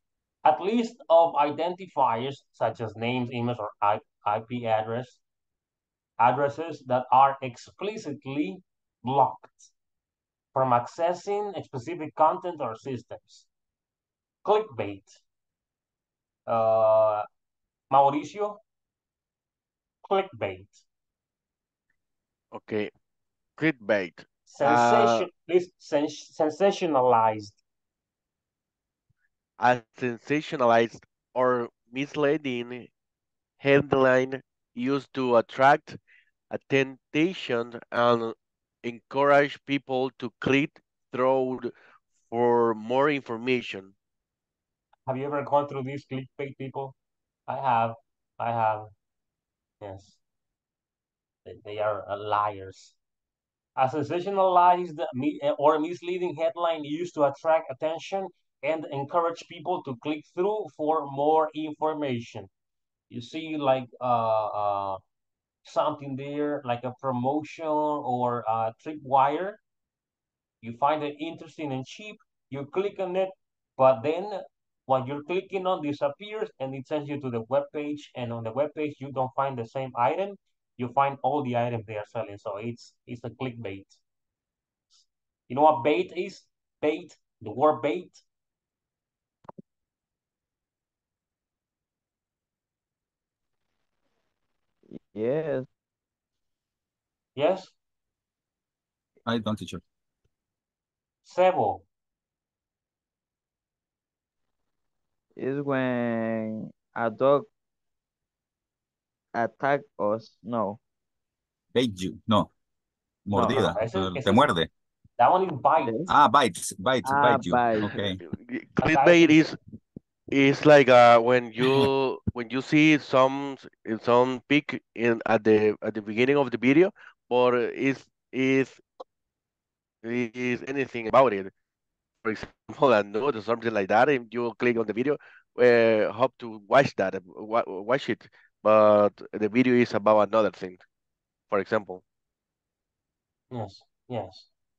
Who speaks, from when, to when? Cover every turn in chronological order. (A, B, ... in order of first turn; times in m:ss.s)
0:00.4-0:05.2 A
0:06.2-0:09.7 A
0:10.5-0:13.5 A
0:14.4-0:15.2 A
0:16.5-0:17.2 A
0:17.9-0:18.6 A
0:20.0-0:20.8 A
0:22.5-0:22.9 B
0:23.6-0:25.3 B
0:24.5-0:27.6 A
0:29.6-0:32.9 B
0:33.6-0:36.0 B
0:36.5-0:41.7 B
0:42.3-0:43.9 B
0:45.1-0:46.9 A
0:47.5-0:48.9 A
0:49.8-0:50.2 A
0:51.4-0:53.0 A
0:53.8-1:02.5 A
1:03.1-1:05.0 A
1:05.6-1:09.6 A
1:10.6-1:24.0 A
1:24.9-1:28.2 A
1:34.9-1:35.6 C
1:37.4-1:37.7 A
1:39.2-1:39.8 D
1:41.2-1:41.8 A
1:45.4-1:47.5 C
1:49.3-1:50.8 C
1:51.7-1:52.5 D
1:53.2-1:54.7 D
1:53.3-1:54.5 A
1:55.2-1:56.0 A
1:55.8-1:56.1 C
1:56.1-1:58.2 D
1:57.0-1:57.9 C
1:58.2-1:59.6 B
1:58.8-1:59.4 A
2:00.3-2:08.8 B
2:10.0-2:11.5 B
2:12.2-2:20.8 B
2:21.5-2:22.0 B
2:23.5-2:24.5 A